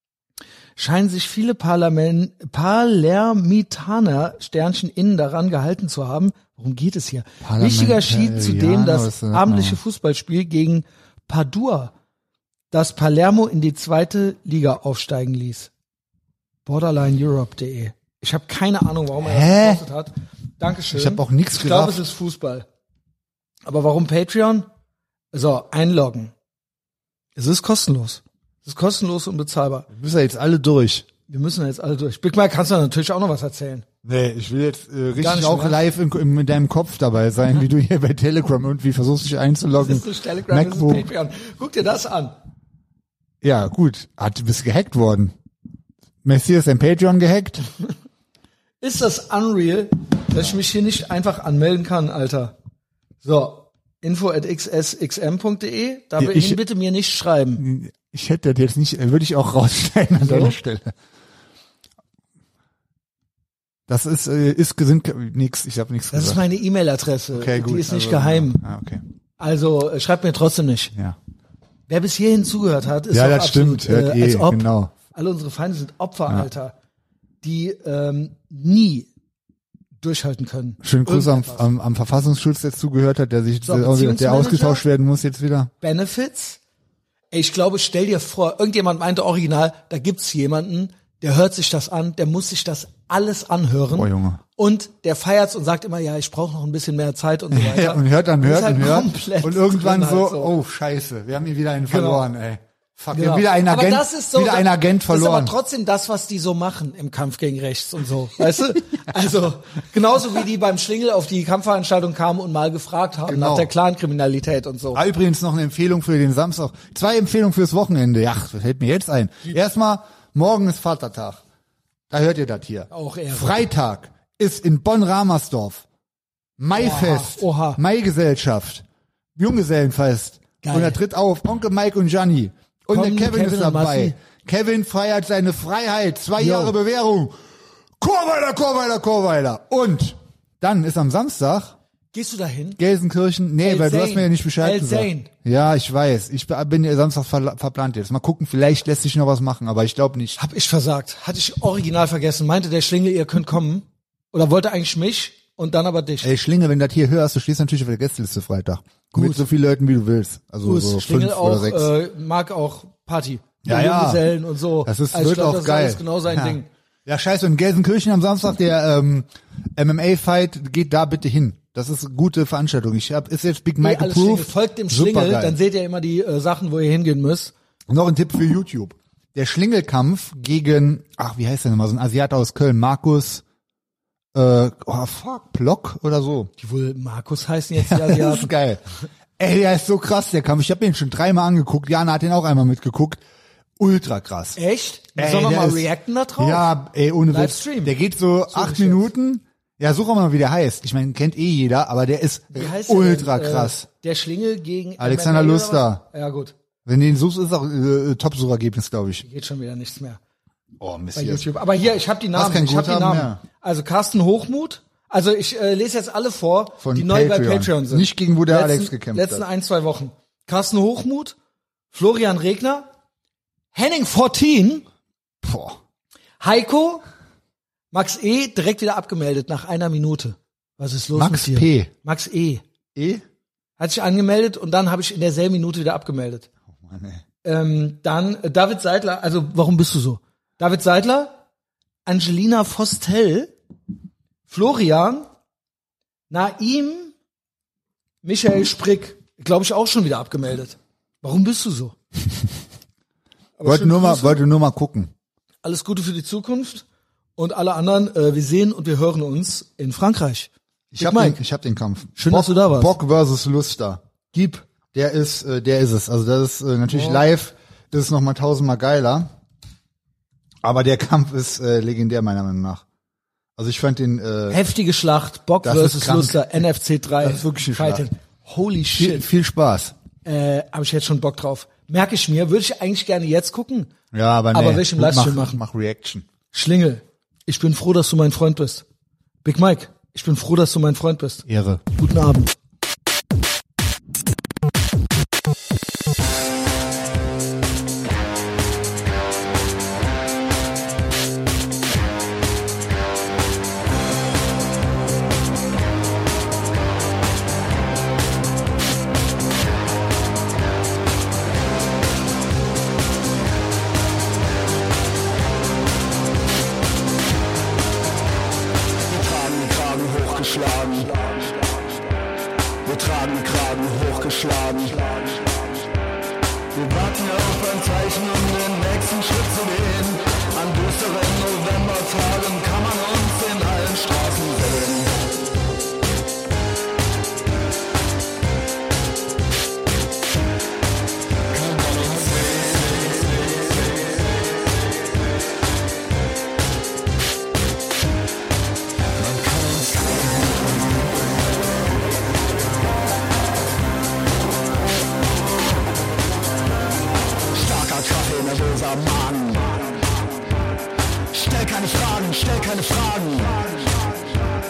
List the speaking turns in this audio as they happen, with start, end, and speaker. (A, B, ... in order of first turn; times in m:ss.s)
0:00.8-0:11.9 A
0:07.4-0:09.8 B
0:12.7-0:15.7 A
0:16.6-0:22.6 A
0:19.2-0:19.8 B
0:20.9-0:22.0 B
0:23.6-0:24.7 A
0:25.3-0:26.3 A
0:27.4-0:29.8 A
0:29.9-0:31.1 B
0:31.3-0:33.8 A
0:34.0-0:41.1 B
0:35.2-0:35.8 A
0:39.8-0:42.3 A
0:43.4-0:45.3 B
0:46.2-0:47.6 B
0:48.8-0:52.5 A
0:53.2-0:57.6 A
0:56.2-0:56.6 B
0:57.6-1:00.9 B
1:00.2-1:00.6 A
1:03.9-1:06.4 B
1:06.1-1:08.6 A
1:07.3-1:09.0 B
1:09.4-1:10.9 A
1:11.9-1:16.7 A
1:13.1-1:14.9 B
1:17.4-1:19.1 A
1:20.0-1:21.7 A
1:20.8-1:25.7 B
1:23.6-1:24.8 A
1:25.8-1:26.6 A
1:27.3-1:40.5 A
1:33.9-1:34.4 B
1:37.5-1:45.5 B
1:41.9-1:42.2 A
1:43.1-1:55.0 A
1:53.3-1:53.7 B
1:54.9-2:01.4 B
2:02.1-2:05.8 B
2:02.9-2:03.6 A
2:06.6-2:08.8 B
2:06.7-2:07.8 A
2:09.4-2:17.4 B
2:10.6-2:11.0 A
2:12.9-2:14.2 A
2:16.4-2:16.7 A
2:18.0-2:21.7 B
2:22.1-2:22.8 A
2:22.8-2:30.4 B
2:23.6-2:25.3 A
2:30.4-2:36.3 A
2:36.2-2:41.9 B
2:39.1-2:39.4 A
2:40.6-2:46.7 A
2:43.6-2:44.3 B
2:44.8-2:55.6 B
2:53.8-2:57.5 A
2:57.9-3:03.4 B
3:04.3-3:06.5 B
3:06.6-3:08.5 A
3:07.8-3:08.8 B
3:09.4-3:13.2 B
3:13.8-3:14.6 B
3:14.6-3:16.7 A
3:15.2-3:23.8 B
3:17.3-3:17.9 A
3:18.5-3:19.1 A
3:22.5-3:26.5 A
3:25.0-3:26.0 B
3:26.8-3:29.2 B
3:29.2-3:30.2 A
3:30.8-3:31.4 B
3:31.1-3:41.4 A
3:32.3-3:33.4 B
3:36.8-3:39.4 B
3:41.9-3:42.8 A
3:43.7-3:44.8 A
3:45.4-3:45.8 B
3:46.4-3:47.0 A
3:47.9-3:52.6 A
3:51.1-3:51.9 B
3:53.0-3:53.2 B
3:53.8-3:56.5 A
3:56.7-3:57.2 B
3:57.4-4:01.4 A
4:02.0-4:03.5 A
4:04.5-4:05.3 A
4:06.3-4:07.1 A
4:08.2-4:11.9 A
4:13.6-4:14.4 A
4:13.6-4:15.1 B
4:15.6-4:16.8 A
4:17.4-4:21.4 A
4:20.9-4:24.0 B
4:22.2-4:22.9 A
4:24.3-4:24.6 A
4:24.8-4:29.3 B
4:26.9-4:27.2 A
4:30.6-4:32.8 B
4:33.6-4:34.6 B
4:34.5-4:39.3 A
4:35.6-4:36.5 B
4:37.2-4:38.0 B
4:39.0-4:39.9 B
4:40.2-4:43.9 A
4:44.1-4:46.2 B
4:44.5-4:45.6 A
4:46.5-4:48.8 A
4:49.4-4:52.5 A
4:51.4-4:51.8 B
5:19.1-5:22.0 C
5:22.8-5:25.9 C
5:26.7-5:35.3 C
5:41.5-5:44.1 C
5:49.2-5:51.1 C
5:57.5-6:00.5 C
6:01.3-6:04.3 C